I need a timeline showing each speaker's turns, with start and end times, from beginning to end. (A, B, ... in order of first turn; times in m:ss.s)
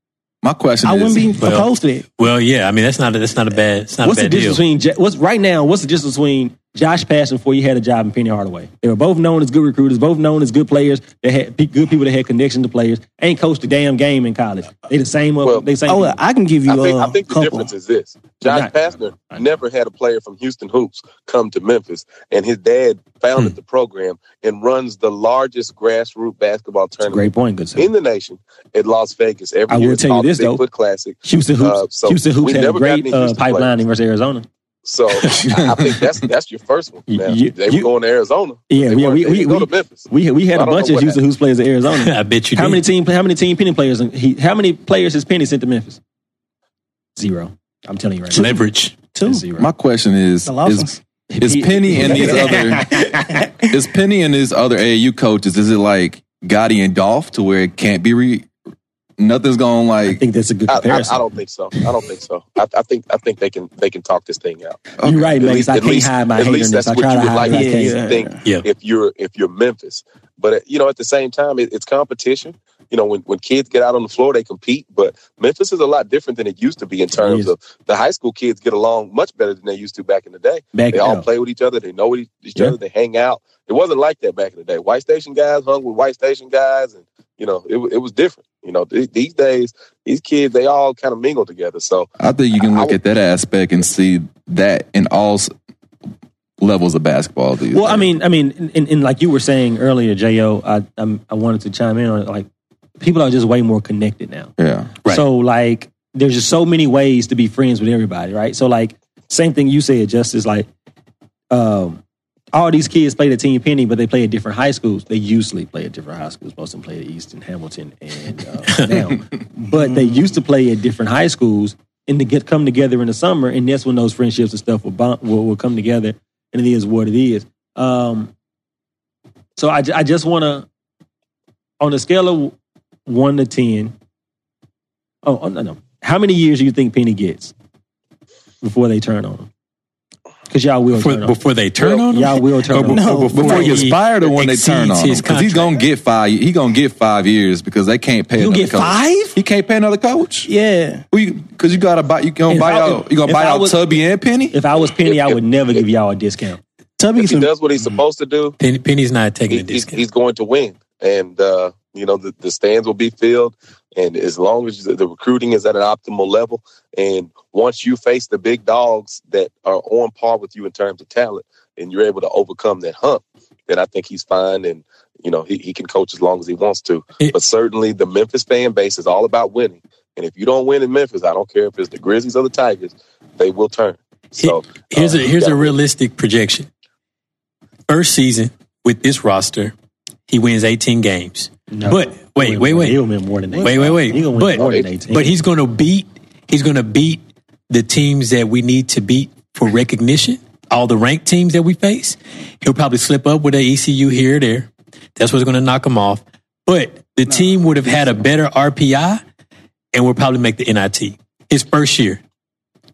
0:00.4-0:01.4 A
0:00.8-0:02.0 B
0:01.4-0:04.6 C
0:04.0-0:16.2 D
0:15.4-0:15.7 E
0:15.9-0:17.7 B
0:16.7-0:33.8 E
0:18.4-0:19.5 D
0:27.0-0:27.9 D
0:29.7-0:30.6 D
0:31.2-0:34.4 D
0:34.8-0:41.2 E
0:35.4-0:36.0 A
0:37.1-0:37.9 D
0:38.7-0:46.0 D
0:42.0-0:42.8 C
0:47.2-0:48.5 D
0:48.3-0:49.4 B
0:48.3-0:49.0 C
0:49.2-0:49.7 D
0:49.6-0:53.1 A
0:50.4-0:51.0 B
0:51.3-0:53.4 D
0:52.1-0:53.1 B
0:53.6-0:58.5 A
0:59.2-1:00.2 A
1:00.0-1:01.2 D
1:00.7-1:33.0 E
1:05.0-1:05.3 A
1:05.0-1:08.0 D
1:07.5-1:08.4 B
1:17.1-1:17.5 D
1:20.7-1:21.2 D
1:32.2-1:35.5 A
1:36.6-1:38.1 A
1:37.7-1:42.5 D
1:43.0-1:44.5 D
1:44.6-1:44.9 A
1:45.0-1:50.7 D
1:51.5-1:52.0 D
1:52.5-2:08.3 D
2:09.6-2:10.6 D
2:11.8-2:12.5 D
2:13.1-2:13.9 D
2:15.2-2:17.5 D
2:18.6-2:19.5 D
2:20.5-2:21.4 D
2:20.9-2:25.8 C
2:22.1-2:23.6 D
2:22.9-2:23.8 B
2:23.3-2:30.5 A
2:28.4-2:29.4 D
2:30.4-2:31.0 B
2:31.1-2:34.5 A
2:32.5-2:33.8 D
2:34.5-2:36.6 D
2:35.0-2:35.8 E
2:37.0-2:37.5 B
2:37.2-2:38.6 E
2:38.6-2:40.0 C
2:39.5-3:05.8 E
3:04.4-3:06.7 C
3:07.9-3:09.7 C
3:10.3-3:13.0 C
3:11.7-3:15.3 D
3:13.5-3:13.9 B
3:13.6-3:29.2 C
3:14.6-3:14.9 E
3:27.3-3:27.8 B
3:29.9-3:32.2 C